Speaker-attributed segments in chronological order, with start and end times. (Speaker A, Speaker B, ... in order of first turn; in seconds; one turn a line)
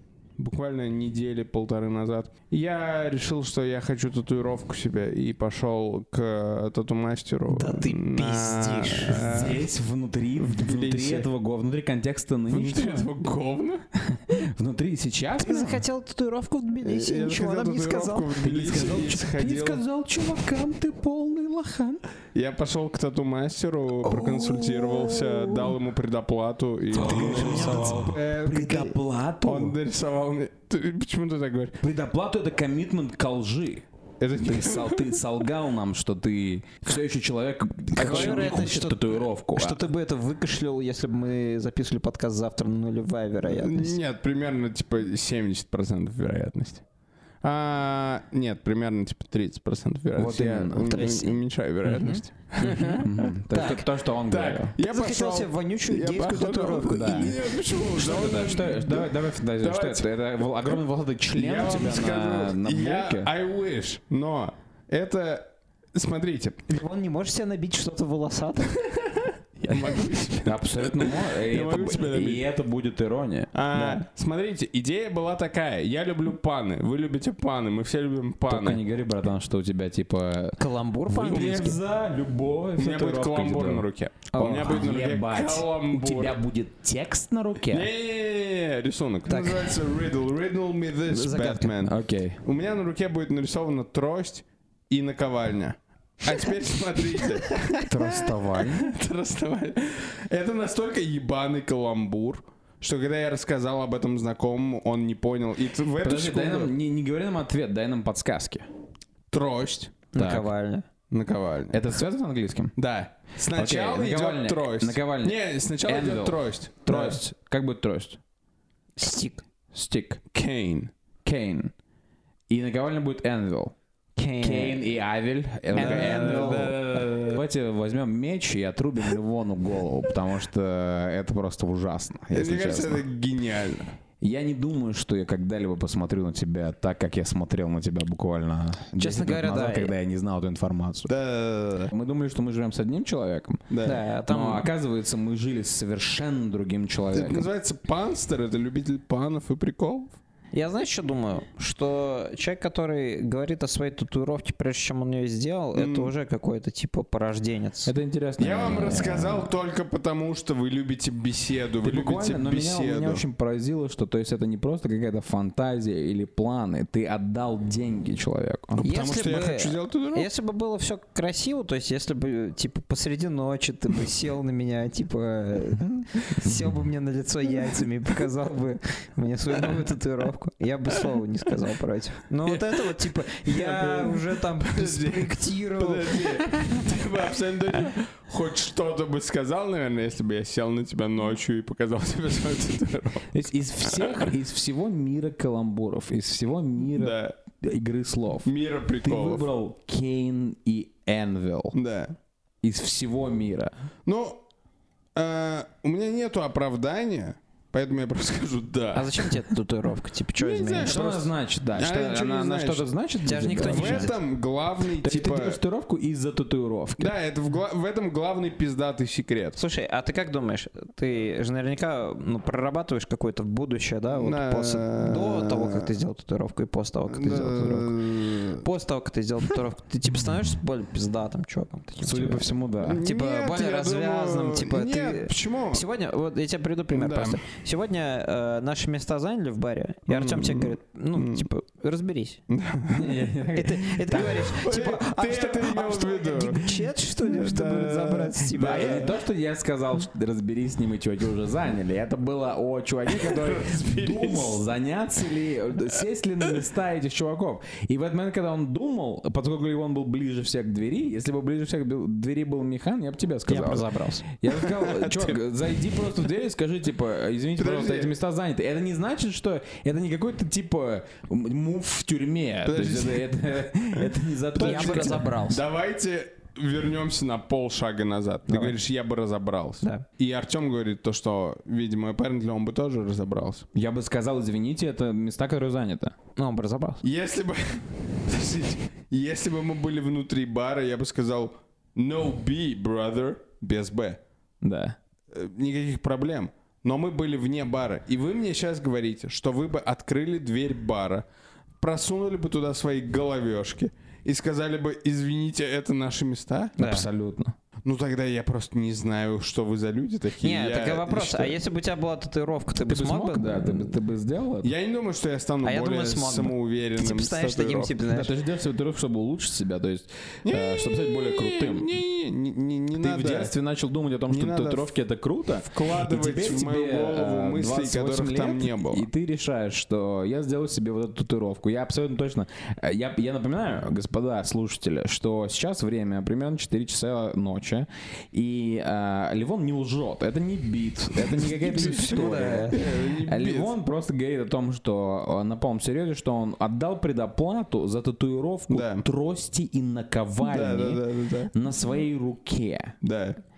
Speaker A: 0.4-9.7
Speaker B: 7.5-9.3
Speaker C: 9.1-13.3
Speaker A: 10.4-11.3
Speaker A: 12.5-13.8
Speaker C: 14.1-15.8
Speaker B: 15.4-18.4
Speaker A: 16.8-19.8
Speaker C: 18.4-22.0
Speaker A: 22.3-28.2
Speaker B: 24.4-25.2
Speaker B: 26.9-29.0
Speaker C: 26.9-29.8
Speaker A: 29.4-31.8
Speaker C: 31.8-33.9
Speaker A: 34.2-35.3
Speaker C: 34.4-39.9
Speaker B: 38.0-44.0
Speaker A: 38.0-38.6
Speaker A: 43.4-46.8
Speaker A: 47.4-53.1
Speaker C: 50.1-51.3
Speaker B: 51.9-53.8
Speaker C: 53.0-54.7
Speaker A: 54.3-60.1
Speaker B: 54.8-57.4
Speaker C: 56.9-57.3
Speaker C: 57.9-63.3
Speaker A: 61.3-66.6
Speaker B: 66.7-68.8
Speaker A: 69.6-72.5
Speaker C: 69.7-73.6
Speaker A: 73.5-78.8
Speaker B: 73.7-74.0
Speaker C: 78.5-83.9
Speaker B: 80.6-81.8
Speaker A: 81.3-81.7
Speaker A: 82.8-86.4
Speaker B: 84.3-84.8
Speaker C: 84.4-87.9
Speaker A: 87.7-106.7
Speaker B: 89.3-89.7
Speaker B: 91.1-91.7
Speaker C: 91.8-92.4
Speaker C: 97.8-98.9
Speaker C: 106.0-108.7
Speaker A: 109.3-110.0
Speaker B: 110.1-110.9
Speaker C: 110.2-110.5
Speaker A: 111.1-111.8
Speaker C: 111.7-112.7
Speaker A: 112.8-117.2
Speaker C: 113.5-118.2
Speaker B: 119.0-119.5
Speaker C: 119.7-120.2
Speaker A: 120.3-120.9
Speaker C: 121.2-121.7
Speaker C: 122.5-123.7
Speaker B: 124.2-124.9
Speaker C: 124.4-133.1
Speaker B: 125.8-126.8
Speaker A: 125.8-127.4
Speaker A: 132.3-133.9
Speaker C: 134.2-141.1
Speaker B: 139.0-139.9
Speaker A: 141.1-141.9
Speaker C: 141.9-143.7
Speaker A: 143.7-144.0
Speaker B: 143.8-144.7
Speaker C: 144.3-147.5
Speaker A: 147.1-150.2
Speaker B: 150.5-157.9
Speaker A: 155.7-156.1
Speaker C: 157.8-159.5
Speaker A: 158.4-163.2
Speaker C: 161.8-168.8
Speaker A: 168.8-170.3
Speaker B: 168.8-186.4
Speaker A: 182.5-193.3
Speaker C: 193.3-198.5
Speaker A: 196.9-197.4
Speaker A: 198.4-199.5
Speaker C: 199.0-201.8
Speaker A: 201.7-202.2
Speaker C: 202.6-203.7
Speaker A: 204.1-204.4
Speaker A: 205.2-209.4
Speaker B: 208.9-211.0
Speaker A: 210.4-212.9
Speaker C: 210.8-214.1
Speaker B: 213.2-214.1
Speaker A: 213.6-215.6
Speaker C: 215.0-217.1
Speaker A: 217.0-219.6
Speaker B: 219.6-232.4
Speaker A: 224.1-225.9
Speaker A: 227.1-228.7
Speaker C: 232.0-233.0
Speaker A: 232.8-235.9
Speaker B: 233.0-242.4
Speaker A: 236.9-237.4
Speaker A: 240.1-241.5
Speaker A: 242.5-243.3
Speaker C: 242.9-244.5
Speaker B: 243.5-249.1
Speaker A: 244.2-249.1
Speaker C: 248.6-275.3
Speaker A: 253.1-254.6
Speaker B: 263.5-264.2
Speaker A: 264.5-265.4
Speaker A: 267.6-268.1
Speaker A: 272.6-273.3
Speaker A: 274.0-283.7
Speaker B: 274.6-275.6
Speaker B: 278.5-278.8
Speaker C: 283.7-286.1
Speaker B: 286.4-287.0
Speaker A: 287.0-294.2
Speaker C: 294.6-295.0
Speaker A: 295.3-301.2
Speaker A: 301.8-306.8
Speaker C: 306.8-307.6
Speaker B: 306.8-307.1
Speaker A: 307.8-311.6
Speaker B: 310.4-313.9
Speaker C: 312.8-314.7
Speaker A: 314.6-318.0
Speaker B: 315.6-318.3
Speaker C: 318.1-321.9
Speaker A: 320.4-323.5
Speaker C: 323.0-352.9
Speaker A: 324.3-324.9
Speaker A: 325.7-329.1
Speaker A: 341.4-343.7
Speaker B: 341.4-342.8
Speaker A: 348.7-349.1
Speaker A: 350.4-351.5
Speaker A: 353.0-353.4